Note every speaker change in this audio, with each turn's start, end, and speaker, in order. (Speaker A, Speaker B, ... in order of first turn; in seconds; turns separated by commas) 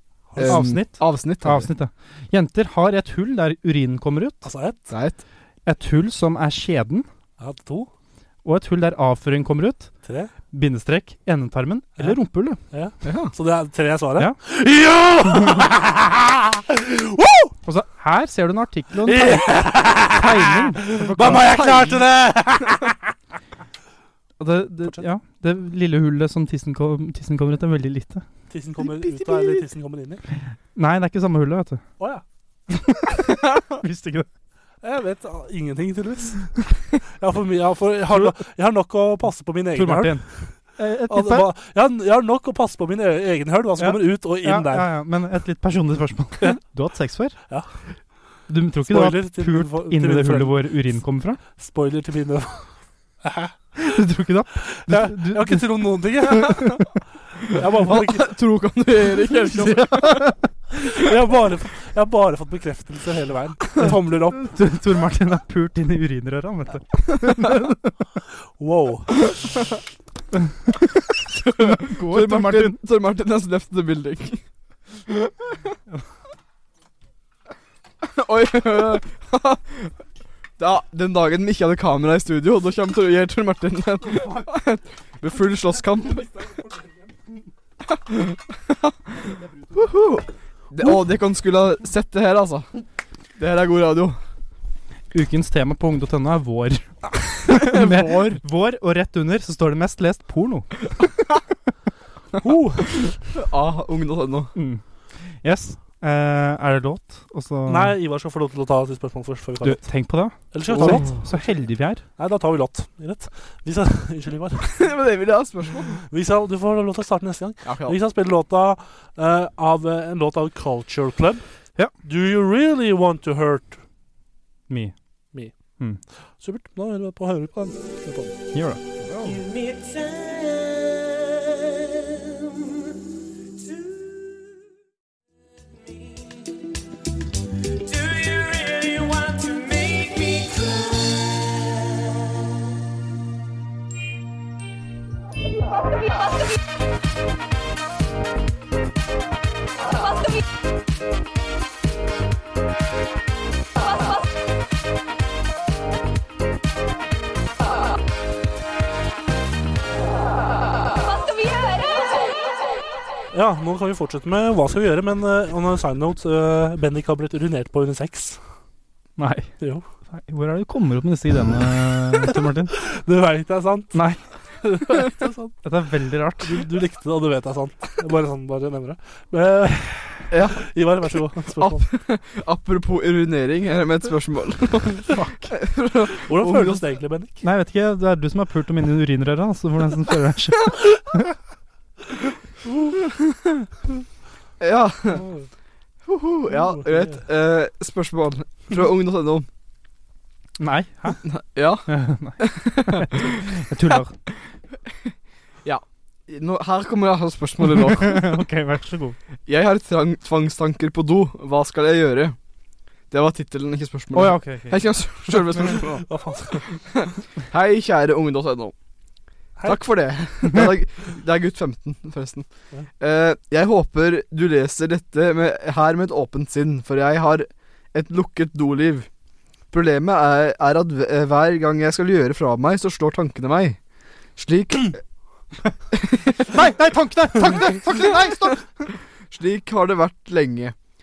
Speaker A: 0.3-0.7, Speaker B: 0.4-1.7, Speaker C: 0.4-4.5, Speaker A: 4.4-4.8, Speaker B: 4.9-5.2, Speaker C: 5.7-7.1, Speaker A: 7.4-7.9, Speaker C: 8.4-9.9, Speaker A: 10.0-10.3, Speaker C: 10.5-12.6, Speaker A: 12.7-17.5, Speaker B: 13.0-13.3, Speaker C: 17.6-21.9, Speaker A: 19.1-22.9, Speaker B: 21.4-21.8, Speaker C: 24.4-28.2, Speaker A: 28.5-30.2, Speaker C: 30.8-31.8, Speaker C: 32.7-34.3, Speaker A: 34.8-36.5, Speaker A: 37.1-40.5, Speaker C: 39.8-41.5, Speaker A: 41.1-44.9, Speaker C: 43.8-47.4, Speaker C: 48.5-51.4, Speaker A: 48.9-50.7, Speaker A: 51.6-53.6, Speaker C: 53.8-56.8, Speaker A: 54.7-56.8, Speaker A: 57.5-58.3, Speaker B: 57.9-60.3, Speaker C: 59.6-60.4, Speaker A: 60.9-64.5, Speaker C: 63.8-68.0, Speaker A: 68.6-69.2, Speaker B: 71.4-74.4, Speaker C: 71.6-72.8, Speaker B: 78.0-79.9, Speaker B: 80.6-86.3, Speaker B: 88.1-88.6, Speaker B: 89.7-92.7, Speaker B: 93.4-94.2, Speaker C: 95.1-101.0, Speaker B: 97.5-98.4, Speaker A: 102.4-103.2, Speaker B: 103.3-104.5, Speaker C: 104.5-108.0, Speaker A: 107.7-109.9, Speaker C: 109.6-112.0, Speaker A: 110.5-111.5, Speaker B: 110.7-111.1, Speaker A: 112.2-114.8, Speaker B: 114.7-116.0, Speaker A: 116.1-121.4, Speaker B: 117.6-118.0, Speaker A: 122.0-123.8, Speaker C: 124.7-125.0, Speaker A: 126.4-128.4, Speaker C: 128.5-129.0, Speaker A: 163.3-168.4, Speaker C: 169.2-169.6, Speaker A: 169.6-169.9, Speaker C: 170.1-172.7, Speaker A: 172.8-174.0, Speaker C: 173.9-174.2, Speaker A: 174.8-175.5, Speaker C: 175.6-176.7, Speaker A: 176.4-181.9, Speaker B: 180.3-180.7, Speaker B: 181.6-186.8, Speaker A: 186.3-187.4, Speaker C: 187.4-191.3, Speaker B: 194.6-195.2, Speaker A: 195.1-195.5, Speaker B: 196.1-199.5, Speaker A: 196.6-197.2, Speaker C: 200.6-201.2, Speaker B: 201.2-203.3, Speaker C: 201.9-204.2, Speaker B: 205.7-208.2, Speaker C: 208.0-209.2, Speaker B: 209.5-212.4, Speaker B: 213.1-216.1, Speaker C: 214.1-214.8, Speaker A: 215.7-216.7, Speaker B: 216.9-218.7, Speaker B: 219.7-222.5, Speaker B: 223.0-229.1, Speaker B: 229.7-233.8, Speaker B: 234.4-235.0, Speaker B: 235.9-236.3, Speaker C: 236.5-238.9, Speaker B: 239.3-240.8